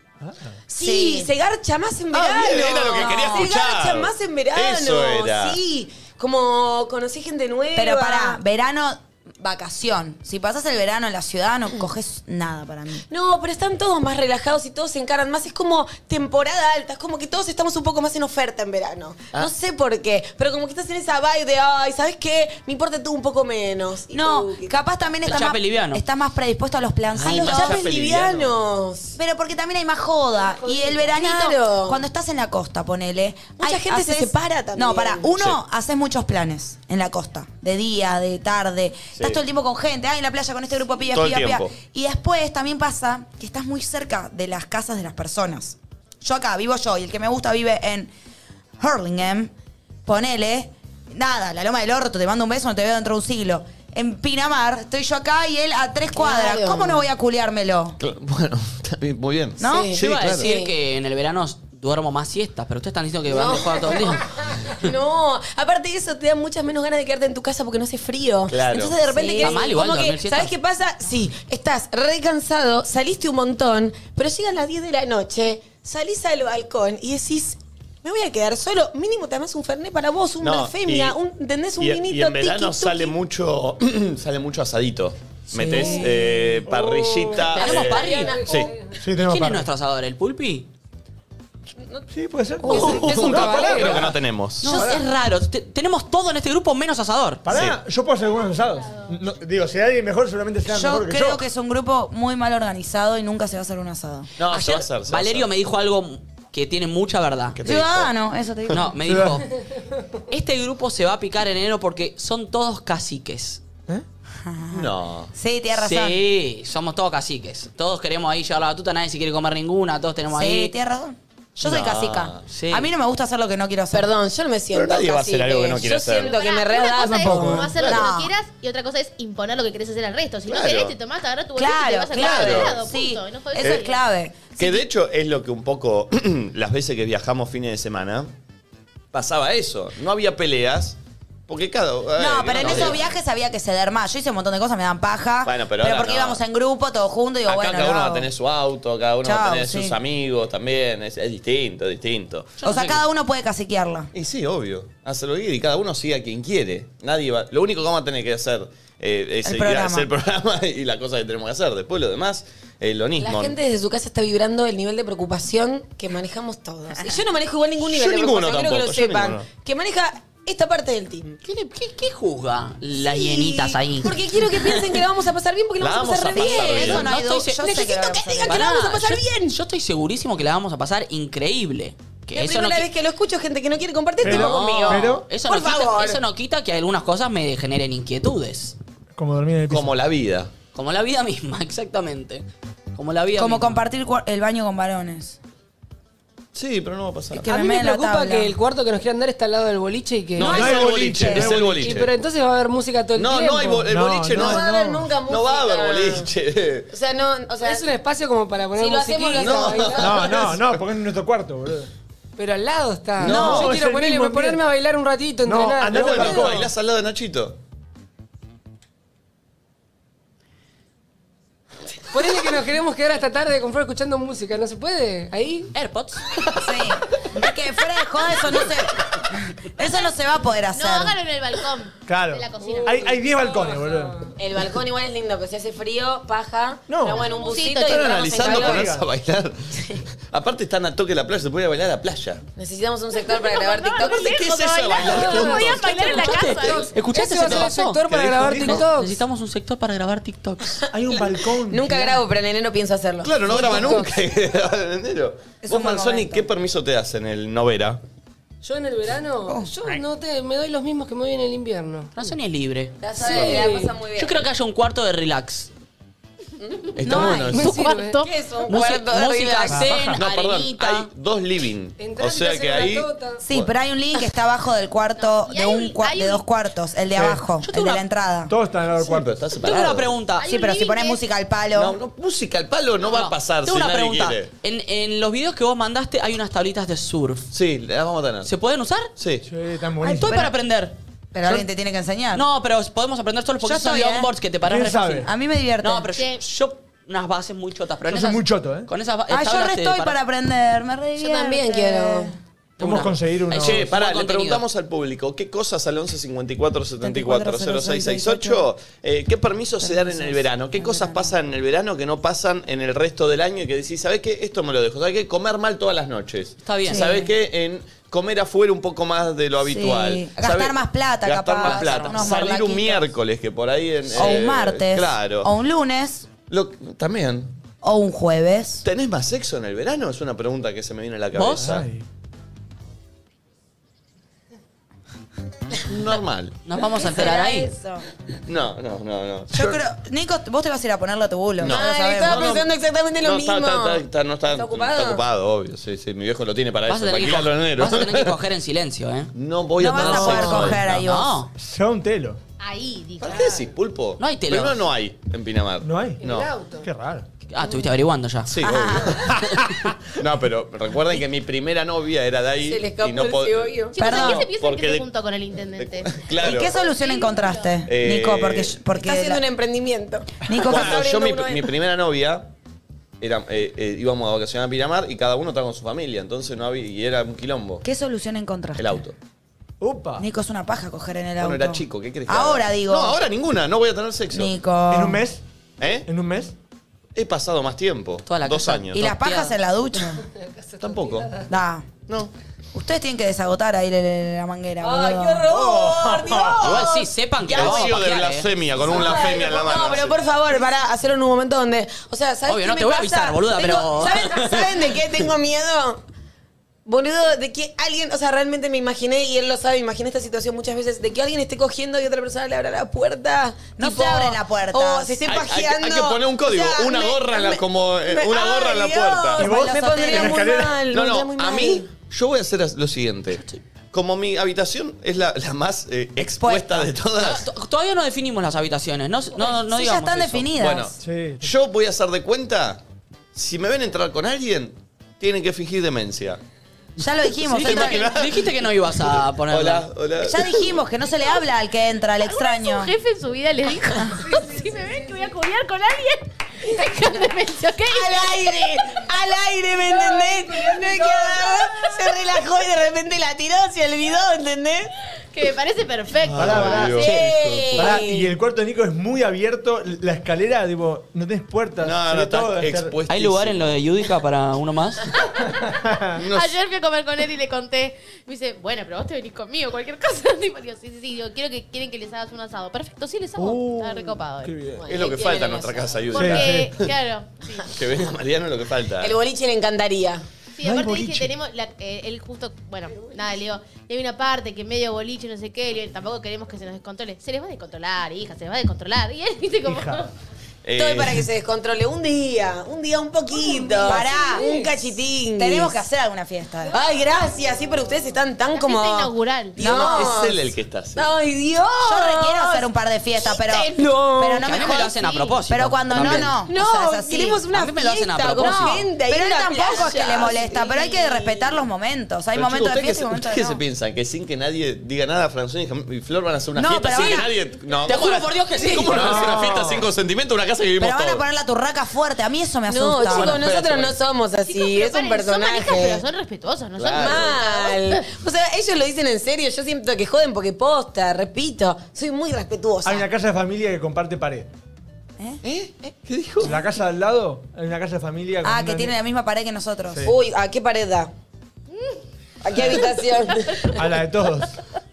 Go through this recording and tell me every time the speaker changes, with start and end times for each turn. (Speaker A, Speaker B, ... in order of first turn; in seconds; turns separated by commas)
Speaker A: 0.2-0.5, Speaker B: 0.7-8.4, Speaker C: 0.8-1.3, Speaker D: 2.1-5.6, Speaker C: 2.8-3.5, Speaker C: 7.8-13.0, Speaker B: 13.1-24.7, Speaker C: 24.1-27.8, Speaker E: 25.2-26.0, Speaker D: 27.2-28.5, Speaker B: 27.2-29.2, Speaker C: 29.2-48.1, Speaker B: 31.1-32.0, Speaker B: 33.6-35.3, Speaker D: 41.1-41.8, Speaker C: 48.8-49.5, Speaker C: 50.0-58.0, Speaker B: 56.1-57.1, Speaker D: 58.0-60.5, Speaker C: 59.6-59.9, Speaker B: 59.6-60.7, Speaker E: 60.0-64.2, Speaker B: 63.3-83.2, Speaker D: 68.5-69.1, Speaker C: 69.2-69.5, Speaker E: 69.4-70.5, Speaker D: 80.4-81.2, Speaker D: 81.8-88.7, Speaker A: 85.6-87.5, Speaker E: 87.4-88.4, Speaker B: 87.5-88.7, Speaker F: 88.1-89.0, Speaker A: 89.0-89.7, Speaker E: 89.2-90.7, Speaker B: 91.8-92.1, Speaker A: 92.1-95.0, Speaker C: 92.7-93.0, Speaker F: 92.7-94.1, Speaker D: 92.7-94.7, Speaker E: 94.6-97.4, Speaker A: 97.5-101.4, Speaker D: 97.5-97.8, Speaker C: 100.7-104.3, Speaker D: 104.4-105.5, Speaker E: 104.5-107.6, Speaker D: 107.6-108.1, Speaker C: 107.6-108.9, Speaker E: 108.7-109.5, Speaker A: 109.0-109.4, Speaker E: 110.3-113.6, Speaker C: 114.4-116.2, Speaker D: 114.7-115.3, Speaker E: 115.7-120.7, Speaker C: 120.3-124.1, Speaker D: 121.6-122.4, Speaker E: 122.5-122.9, Speaker B: 123.9-127.7, Speaker D: 124.7-126.4, Speaker G: 126.2-134.0, Speaker A: 127.0-127.8, Speaker D: 127.8-128.1, Speaker C: 127.8-128.3, Speaker D: 130.5-130.9, Speaker C: 131.6-134.8, Speaker D: 132.2-132.8, Speaker D: 134.6-138.3, Speaker D: 139.1-141.0, Speaker D: 141.5-143.2, Speaker C: 142.2-148.3, Speaker D: 145.4-146.4, Speaker D: 147.5-152.5, Speaker C: 149.2-150.0, Speaker E: 152.6-153.0, Speaker C: 152.6-154.1, Speaker D: 154.1-163.6, Speaker C: 159.4-160.1, Speaker B: 163.2-171.4, Speaker D: 167.9-169.5, Speaker E: 171.4-175.0, Speaker B: 172.9-179.6, Speaker D: 175.8-177.0, Speaker C: 176.3-178.7, Speaker E: 176.7-177.6, Speaker E: 178.5-182.9, Speaker B: 182.3-186.2, Speaker A: 184.2-185.3, Speaker E: 184.2-188.8, Speaker A: 189.2-190.0, Speaker D: 189.7-190.5, Speaker E: 190.7-192.4, Speaker E: 192.9-193.8, Speaker C: 193.3-195.4, Speaker D: 196.5-197.5, Speaker C: 197.3-198.6, Speaker F: 197.4-200.9, Speaker A: 200.4-202.0, Speaker D: 200.4-202.1, Speaker C: 201.1-201.5, Speaker F: 201.4-203.9, Speaker D: 203.2-204.7, Speaker A: 203.9-205.1, Speaker B: 204.3-206.3, Speaker D: 205.2-206.9, Speaker B: 206.9-207.9, Speaker F: 207.6-210.2, Speaker B: 208.8-210.4, Speaker D: 209.3-210.7, Speaker A: 210.0-211.9, Speaker F: 212.4-216.5, Speaker A: 213.2-214.6, Speaker D: 213.2-213.6, Speaker C: 213.3-213.7, Speaker A: 215.4-216.7, Speaker D: 215.9-217.6, Speaker F: 222.1-225.7, Speaker E: 225.7-226.2, Speaker C: 226.6-231.2, Speaker G: 230.7-233.2, Speaker A: 232.1-234.3, Speaker F: 232.6-234.3, Speaker B: 234.4-238.9, Speaker A: 236.9-237.3, Speaker G: 237.1-238.9, Speaker D: 237.8-242.4, Speaker A: 238.6-239.1, Speaker B: 242.6-244.3, Speaker G: 243.5-246.9, Speaker D: 244.0-245.9, Speaker F: 245.0-249.2, Speaker E: 245.8-250.8, Speaker A: 248.1-248.9, Speaker A: 250.9-252.2, Speaker B: 251.7-253.9, Speaker D: 253.2-258.0, Speaker F: 253.4-254.2, Speaker C: 255.6-256.5, Speaker F: 258.6-262.3, Speaker C: 259.5-259.7, Speaker E: 262.1-265.7, Speaker B: 263.0-264.4, Speaker F: 263.3-263.9, Speaker B: 266.6-267.0, Speaker D: 267.0-267.7, Speaker C: 267.0-267.6, Speaker F: 267.3-268.7, Speaker G: 267.5-268.3, Speaker B: 268.4-270.0, Speaker E: 268.7-271.1, Speaker A: 269.7-270.2, Speaker D: 270.2-273.7, Speaker F: 272.0-273.4, Speaker C: 273.4-278.5, Speaker G: 275.2-276.4, Speaker A: 277.1-277.4, Speaker E: 277.6-278.0, Speaker A: 278.5-279.5, Speaker D: 279.0-280.2, Speaker E: 279.6-280.5, Speaker G: 280.4-281.2, Speaker C: 280.4-282.0, Speaker D: 281.8-284.5, Speaker E: 283.1-287.5, Speaker D: 287.5-288.5, Speaker E: 288.4-289.1, Speaker D: 289.2-289.4, Speaker A: 289.4-290.5, Speaker E: 290.0-290.9, Speaker C: 291.3-292.4, Speaker E: 292.4-295.3, Speaker C: 293.6-294.3, Speaker A: 294.6-295.3, Speaker C: 295.2-296.1, Speaker E: 295.8-300.2, Speaker G: 296.1-296.4, Speaker A: 298.1-298.9, Speaker C: 299.3-302.4, Speaker B: 301.2-302.3, Speaker A: 302.8-303.9, Speaker E: 302.8-304.6, Speaker D: 303.5-325.5, Speaker C: 307.0-308.7, Speaker C: 309.8-311.4, Speaker E: 316.6-317.1, Speaker C: 316.9-317.3, Speaker C: 319.6-323.1, Speaker E: 321.6-322.3, Speaker C: 324.1-326.3, Speaker D: 326.4-327.5, Speaker C: 327.8-328.9, Speaker D: 328.8-331.9, Speaker E: 331.4-331.7, Speaker A: 331.5-332.0, Speaker D: 335.9-336.6, Speaker E: 336.6-337.7, Speaker C: 337.0-338.0, Speaker D: 338.5-339.8, Speaker C: 339.5-342.6, Speaker D: 341.6-342.7, Speaker B: 341.7-345.2, Speaker D: 343.2-348.4, Speaker E: 346.9-349.3, Speaker D: 349.3-351.0, Speaker C: 349.8-351.4, Speaker B: 349.9-350.7, Speaker E: 350.8-351.5, Speaker A: 351.6-352.4, Speaker G: 352.6-353.6, Speaker D: 353.2-356.5, Speaker E: 354.2-354.8, Speaker A: 355.8-356.2, Speaker F: 356.2-356.9, Speaker A: 356.8-357.3, Speaker E: 357.5-358.6, Speaker D: 358.5-359.4, Speaker C: 358.6-359.2, Speaker A: 359.4-359.9, Speaker D: 360.2-365.0, Speaker B: 362.6-363.9, Speaker G: 363.9-367.8, Speaker C: 364.0-364.5, Speaker D: 365.8-366.7, Speaker C: 366.4-369.4, Speaker D: 367.9-368.8, Speaker B: 369.0-371.7, Speaker C: 370.5-371.0, Speaker D: 370.6-372.5, Speaker D: 373.2-377.8, Speaker C: 377.8-379.0, Speaker D: 378.8-379.1, Speaker A: 379.8-380.2, Speaker C: 380.2-383.2, Speaker D: 381.4-384.5, Speaker C: 384.3-385.2, Speaker A: 384.9-385.4, Speaker D: 385.8-386.1, Speaker A: 386.1-386.5, Speaker D: 387.1-389.0, Speaker E: 388.3-389.6, Speaker C: 388.9-390.2, Speaker F: 390.5-391.5, Speaker D: 390.8-391.3, Speaker C: 391.5-391.9, Speaker D: 392.1-392.3, Speaker C: 392.7-395.5, Speaker B: 394.8-397.7, Speaker A: 395.5-396.6, Speaker E: 396.6-398.5, Speaker D: 397.4-400.2, Speaker B: 398.8-406.0, Speaker E: 402.5-404.9, Speaker B: 406.9-421.9, Speaker C: 413.8-415.2, Speaker D: 415.3-419.5, Speaker A: 419.4-420.9, Speaker C: 419.4-420.4, Speaker D: 420.9-427.4, Speaker E: 423.3-423.6, Speaker C: 426.2-426.9, Speaker E: 427.2-430.5, Speaker C: 429.4-430.9, Speaker D: 430.6-432.8, Speaker A: 431.0-431.5, Speaker D: 433.3-436.4, Speaker C: 437.0-438.1, Speaker E: 437.5-439.9, Speaker D: 437.6-438.5, Speaker D: 439.5-440.5, Speaker C: 440.2-442.9, Speaker G: 442.2-448.8, Speaker B: 447.9-454.9, Speaker G: 455.3-457.2, Speaker D: 456.2-457.9, Speaker A: 456.3-457.1, Speaker B: 456.9-458.3, Speaker A: 457.7-463.0, Speaker D: 461.8-463.8, Speaker E: 463.1-465.1, Speaker A: 465.6-466.2, Speaker D: 466.2-466.6, Speaker G: 466.3-474.6, Speaker A: 473.4-474.9, Speaker B: 474.8-476.2, Speaker D: 474.9-476.6, Speaker G: 476.1-477.7, Speaker A: 476.1-476.7, Speaker D: 477.7-479.1, Speaker B: 479.0-480.2, Speaker G: 480.6-490.1, Speaker A: 480.6-481.3, Speaker A: 489.7-490.1, Speaker D: 490.6-491.3, Speaker B: 490.8-495.7, Speaker C: 493.8-494.5, Speaker F: 494.2-494.7, Speaker C: 495.4-496.8, Speaker B: 496.7-502.7, Speaker G: 498.5-499.6, Speaker C: 499.6-500.2, Speaker D: 499.6-501.1, Speaker C: 501.8-504.9, Speaker B: 503.2-505.4, Speaker E: 504.4-506.4, Speaker C: 505.5-507.4, Speaker D: 505.9-506.3, Speaker B: 506.0-511.5, Speaker E: 507.5-508.8, Speaker C: 508.4-513.6, Speaker D: 512.3-521.2, Speaker C: 516.5-517.3, Speaker E: 516.9-517.2, Speaker E: 517.8-519.4, Speaker A: 519.0-519.9, Speaker C: 520.8-523.5, Speaker B: 522.7-526.0, Speaker D: 523.0-524.0, Speaker G: 524.4-528.0, Speaker D: 526.8-527.4, Speaker B: 526.9-533.1, Speaker A: 532.8-534.5, Speaker D: 535.4-536.6, Speaker A: 536.4-539.0, Speaker C: 538.4-540.1, Speaker B: 540.0-541.1, Speaker G: 541.7-542.0, Speaker B: 542.4-543.7, Speaker G: 542.5-544.0, Speaker A: 543.7-544.5